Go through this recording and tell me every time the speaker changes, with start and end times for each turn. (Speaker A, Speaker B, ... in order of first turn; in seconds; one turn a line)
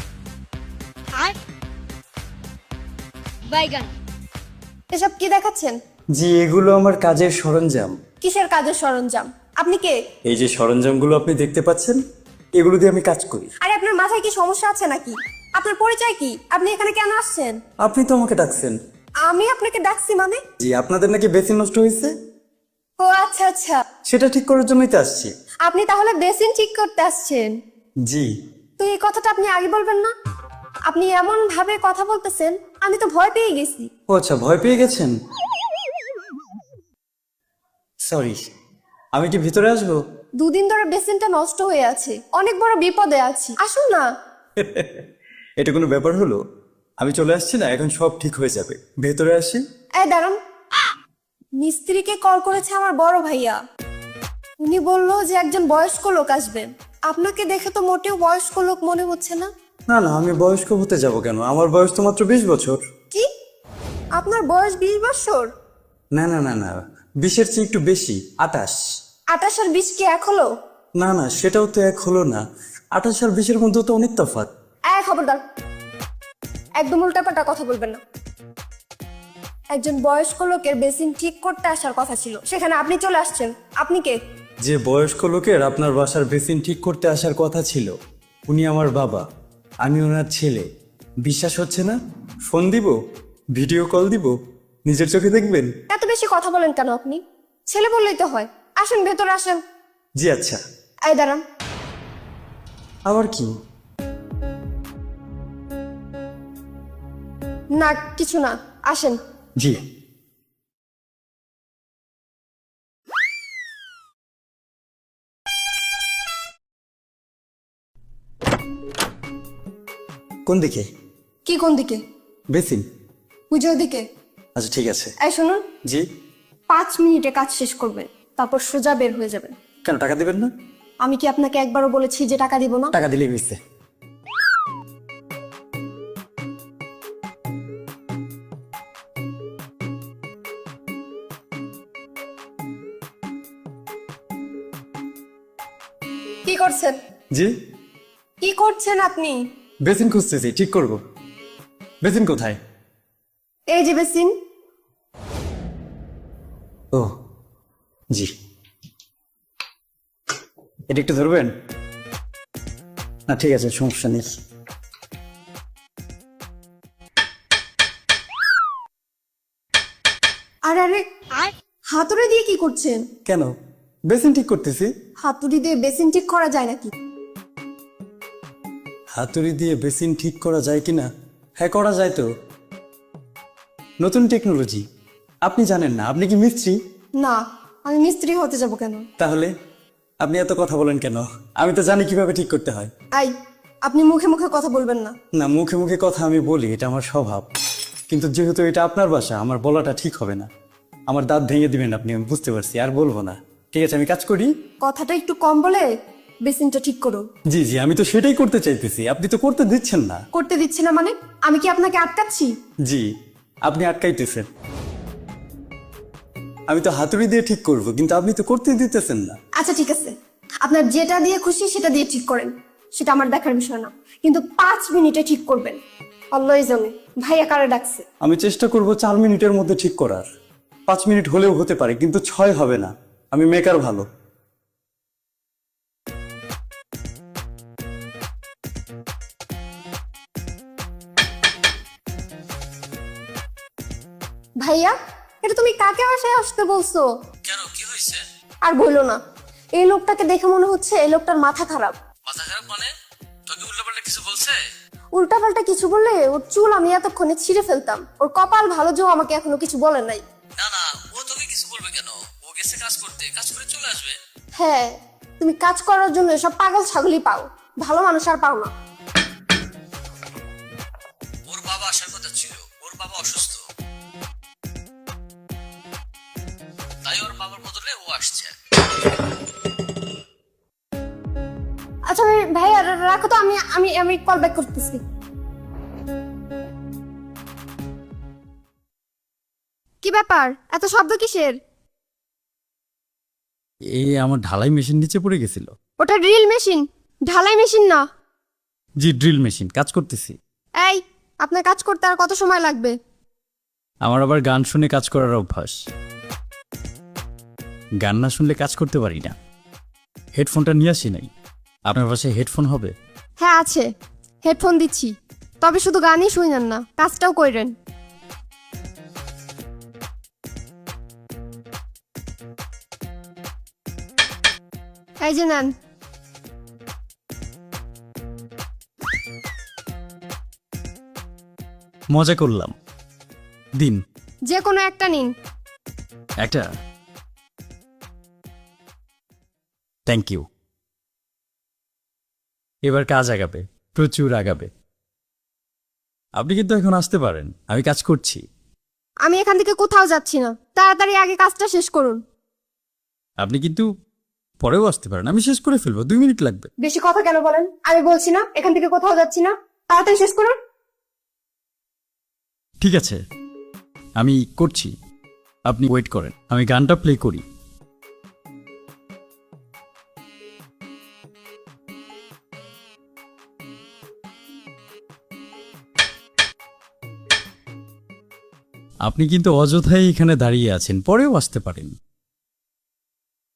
Speaker A: 3.5-3.9
Speaker A: 4.9-5.8
Speaker B: 6.1-8.0
Speaker A: 8.2-10.0
Speaker B: 10.2-12.0
Speaker B: 12.5-13.5
Speaker A: 13.6-17.6
Speaker B: 17.8-18.8
Speaker A: 19.2-20.4
Speaker B: 20.6-22.1
Speaker A: 23.0-23.8
Speaker B: 24.1-25.3
Speaker A: 25.6-27.5
Speaker A: 28.8-30.1
Speaker A: 30.9-33.9
Speaker B: 34.1-35.1
Speaker B: 38.0-38.4
Speaker B: 39.1-40.0
Speaker A: 40.4-44.1
Speaker B: 44.6-45.0
Speaker B: 45.6-46.4
Speaker B: 47.0-49.6
Speaker A: 50.0-50.4
Speaker A: 51.6-53.6
Speaker A: 54.6-59.5
Speaker B: 59.9-62.8
Speaker A: 64.2-65.5
Speaker B: 66.1-68.8
Speaker A: 69.3-70.5
Speaker B: 71.0-72.4
Speaker B: 72.9-74.5
Speaker A: 74.9-75.4
Speaker A: 76.8-78.0
Speaker A: 79.7-84.2
Speaker B: 84.6-87.9
Speaker B: 88.5-89.2
Speaker B: 89.8-90.7
Speaker B: 91.2-92.0
Speaker B: 92.5-92.9
Speaker B: 93.5-94.3
Speaker B: 94.8-95.7
Speaker A: 95.9-99.6
Speaker B: 100.2-100.6
Speaker A: 101.1-101.4
Speaker B: 103.1-103.5
Speaker A: 107.7-109.2
Speaker B: 120.5-120.9
Speaker A: 121.4-122.0
Speaker B: 122.5-122.8
Speaker A: 123.5-124.0
Speaker B: 124.5-125.1
Speaker A: 125.2-125.6
Speaker A: 126.7-129.5
Speaker B: 129.8-130.5
Speaker A: 131.0-132.9
Speaker B: 132.9-133.6
Speaker A: 146.4-147.0
Speaker A: 148.4-149.4
Speaker B: 149.8-151.0
Speaker B: 152.0-152.6
Speaker A: 153.7-154.3
Speaker B: 160.9-161.5
Speaker B: 163.3-164.3
Speaker A: 170.7-173.0
Speaker B: 173.2-173.5
Speaker B: 174.1-174.9
Speaker A: 175.2-176.9
Speaker B: 179.1-181.1
Speaker B: 181.6-182.2
Speaker B: 184.0-184.8
Speaker B: 185.4-186.8
Speaker A: 187.2-189.1
Speaker B: 189.2-189.5
Speaker B: 190.2-192.9
Speaker A: 193.8-195.1
Speaker B: 195.3-197.4
Speaker B: 198.1-200.5
Speaker B: 201.1-204.5
Speaker A: 204.8-205.9
Speaker A: 206.4-207.2
Speaker B: 207.5-210.2
Speaker A: 210.3-212.5
Speaker B: 213.7-214.5
Speaker B: 216.7-219.4
Speaker A: 219.6-225.8
Speaker A: 226.3-228.0
Speaker B: 228.2-230.2
Speaker B: 230.9-234.1
Speaker A: 244.6-247.1
Speaker C: 247.4-248.2
Speaker A: 248.7-249.2
Speaker A: 249.8-251.9
Speaker C: 252.3-252.9
Speaker C: 253.5-254.6
Speaker A: 255.1-260.2
Speaker C: 260.6-264.1
Speaker A: 264.6-268.7
Speaker C: 271.5-273.6
Speaker C: 277.0-278.5
Speaker A: 282.1-285.0
Speaker A: 290.0-291.6
Speaker B: 293.9-295.7
Speaker A: 296.0-298.0
Speaker B: 299.0-300.4
Speaker A: 300.8-302.9
Speaker B: 304.0-305.8
Speaker B: 308.0-309.3
Speaker B: 310.3-311.3
Speaker B: 311.9-312.9
Speaker A: 313.4-313.9
Speaker A: 314.4-317.7
Speaker A: 325.2-325.7
Speaker B: 332.1-332.7
Speaker A: 334.5-335.3
Speaker B: 336.4-336.7
Speaker B: 340.1-340.4
Speaker B: 342.9-344.7
Speaker B: 346.4-348.4
Speaker A: 349.2-352.2
Speaker B: 353.4-353.9
Speaker B: 354.6-356.7
Speaker A: 356.8-360.6
Speaker B: 362.8-363.2
Speaker B: 364.2-364.9
Speaker B: 365.7-367.4
Speaker B: 379.0-381.9